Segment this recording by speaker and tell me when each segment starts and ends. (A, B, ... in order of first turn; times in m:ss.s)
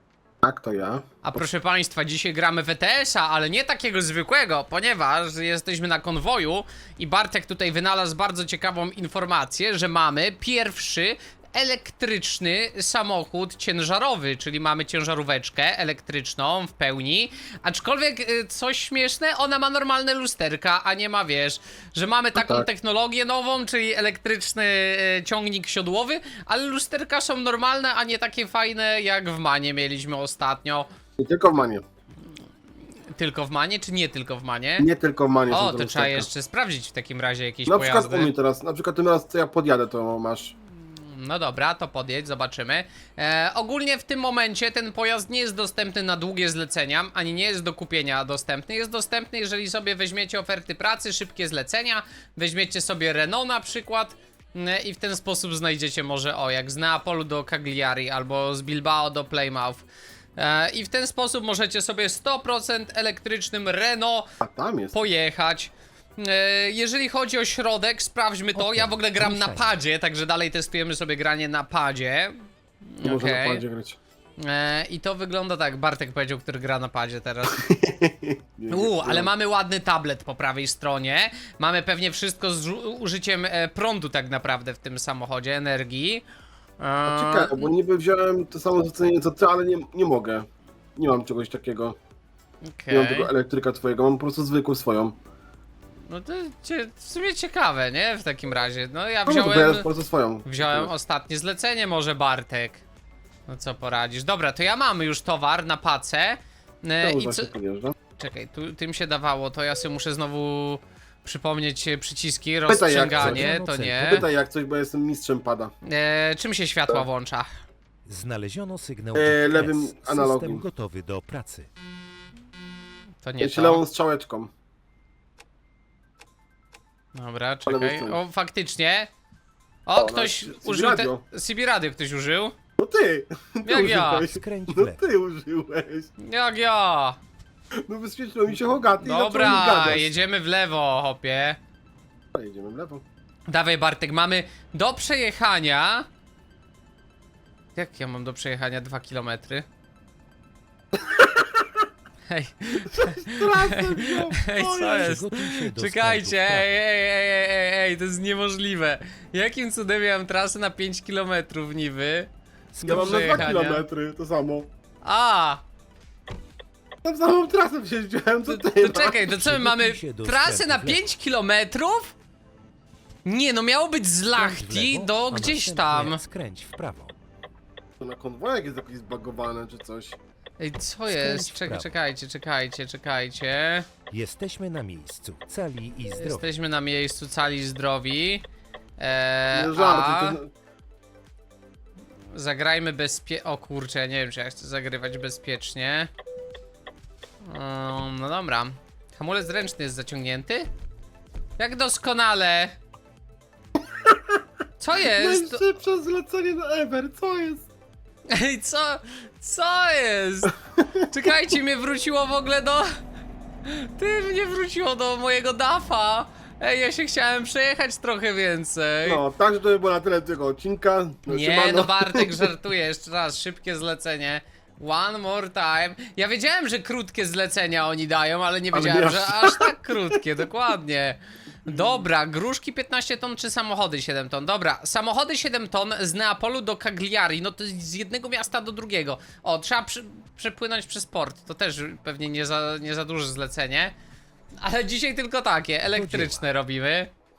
0:00.4-0:01.4 A
0:01.2-0:30.9 B
0:22.4-0:22.7 A
0:31.2-0:31.8 A
0:33.1-0:34.9 B
0:34.8-0:36.3 A
0:35.5-0:38.3 B
0:37.7-0:40.6 A
0:40.8-0:59.8 B
1:00.4-1:04.3 B
1:04.4-1:05.0 A
1:04.9-1:13.6 B
1:08.6-1:09.7 C
1:13.0-1:14.0 A
1:14.4-1:17.6 B
1:17.5-1:19.3 A
1:18.7-1:26.2 B
1:26.8-1:27.7 B
1:27.1-1:30.5 A
1:31.0-1:32.0 A
1:32.7-1:33.3 B
1:32.9-1:35.2 A
1:36.1-1:39.9 B
1:39.3-1:40.9 A
1:40.5-1:42.8 B
1:43.5-1:47.5 B
1:47.0-1:47.9 A
1:48.2-1:54.3 B
1:52.7-1:53.4 A
1:53.1-1:54.3 C
1:54.0-1:55.7 A
1:55.8-1:57.6 B
1:58.1-2:01.7 C
1:59.2-2:00.6 A
2:03.2-2:03.8 B
2:03.4-2:04.5 A
2:07.1-2:09.1 B
2:07.7-2:08.2 A
2:09.9-2:12.6 B
2:10.0-2:11.2 A
2:12.8-2:16.1 A
2:13.6-2:14.3 B
2:14.2-2:15.0 C
2:16.2-2:17.2 B
2:17.9-2:20.1 A
2:19.0-2:21.6 B
2:22.3-2:23.0 A
2:23.5-2:26.1 B
2:27.8-2:29.7 B
2:31.0-2:31.6 A
2:32.3-2:42.3 B
2:32.9-2:35.2 A
2:34.9-2:36.7 C
2:42.7-2:43.6 C
2:42.8-2:43.8 B
2:42.8-2:44.7 A
2:45.0-2:45.6 B
2:47.0-2:49.4 A
2:48.5-2:52.1 B
2:49.3-2:51.1 C
2:53.2-2:56.2 B
2:54.4-2:57.2 C
2:58.0-3:00.2 A
3:00.6-3:03.9 B
3:01.1-3:02.0 C
3:04.1-3:06.5 C
3:06.2-3:08.4 B
3:09.0-3:10.4 B
3:09.5-3:10.5 A
3:12.3-3:16.1 B
3:17.4-3:20.7 B
3:21.6-3:22.8 B
3:24.0-3:24.4 A
3:24.8-3:25.6 B
3:25.1-3:27.7 A
3:28.3-3:30.5 B
3:30.8-3:31.0 A
3:31.1-3:32.9 B
3:33.6-3:39.2 B
3:39.0-3:42.5 A
3:41.3-4:03.9 B
3:48.7-3:49.7 A
3:51.7-3:52.0 A
4:04.6-4:07.1 B
4:05.9-4:06.4 C